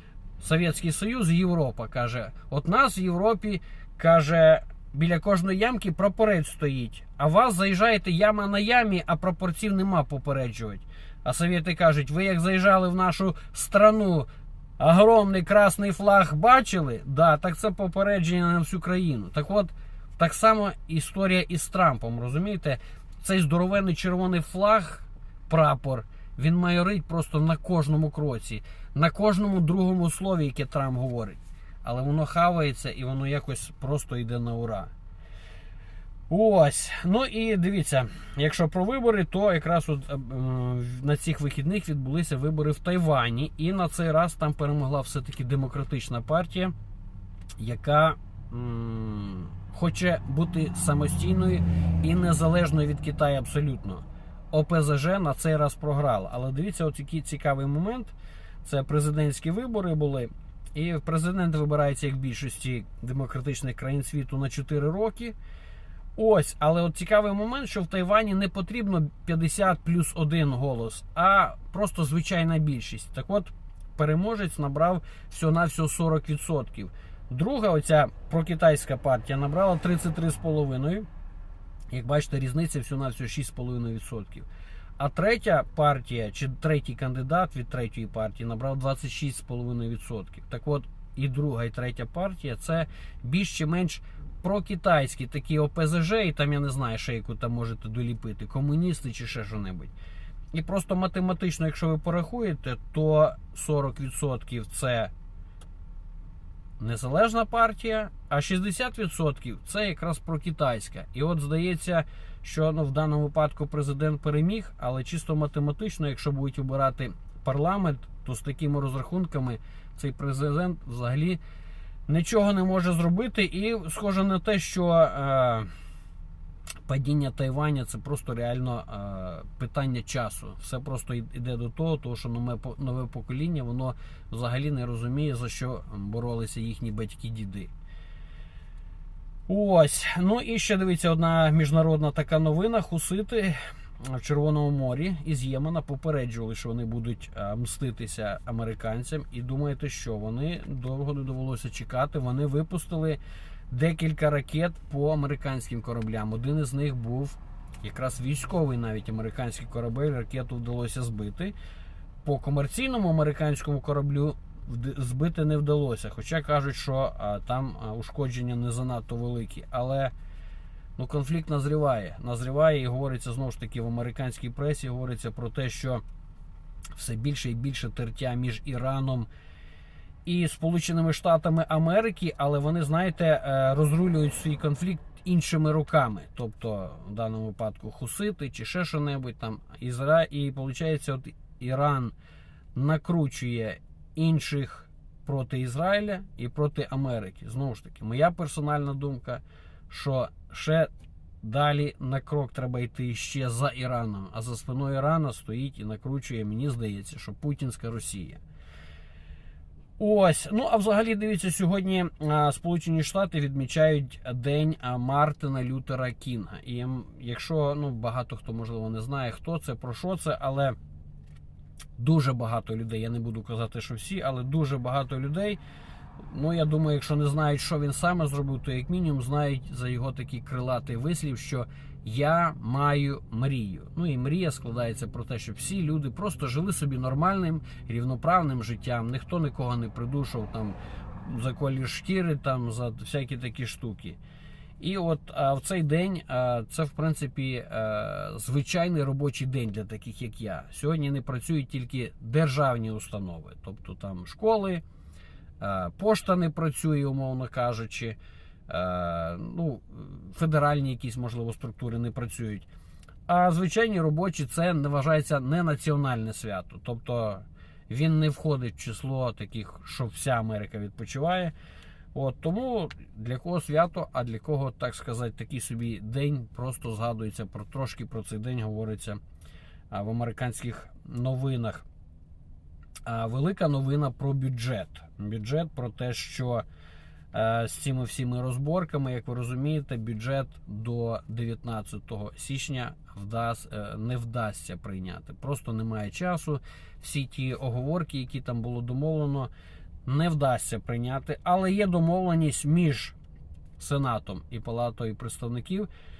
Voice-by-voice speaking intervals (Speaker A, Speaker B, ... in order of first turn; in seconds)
Speaker A: 0.4-14.3, 14.8-34.9, 36.3-46.7, 47.6-65.3, 66.2-81.1, 81.9-99.9, 100.5-105.1, 106.8-121.4, 122.1-125.7, 126.8-137.7, 139.5-161.5, 162.2-170.1, 171.0-176.0, 176.9-179.3, 180.2-192.1, 192.7-200.9, 201.4-208.4, 210.0-220.8, 222.0-225.6, 226.2-244.2, 244.8-254.8, 255.6-262.7, 263.3-271.5, 272.1-279.2, 279.9-281.8, 283.0-286.6, 287.3-299.5, 300.1-303.1, 303.8-305.9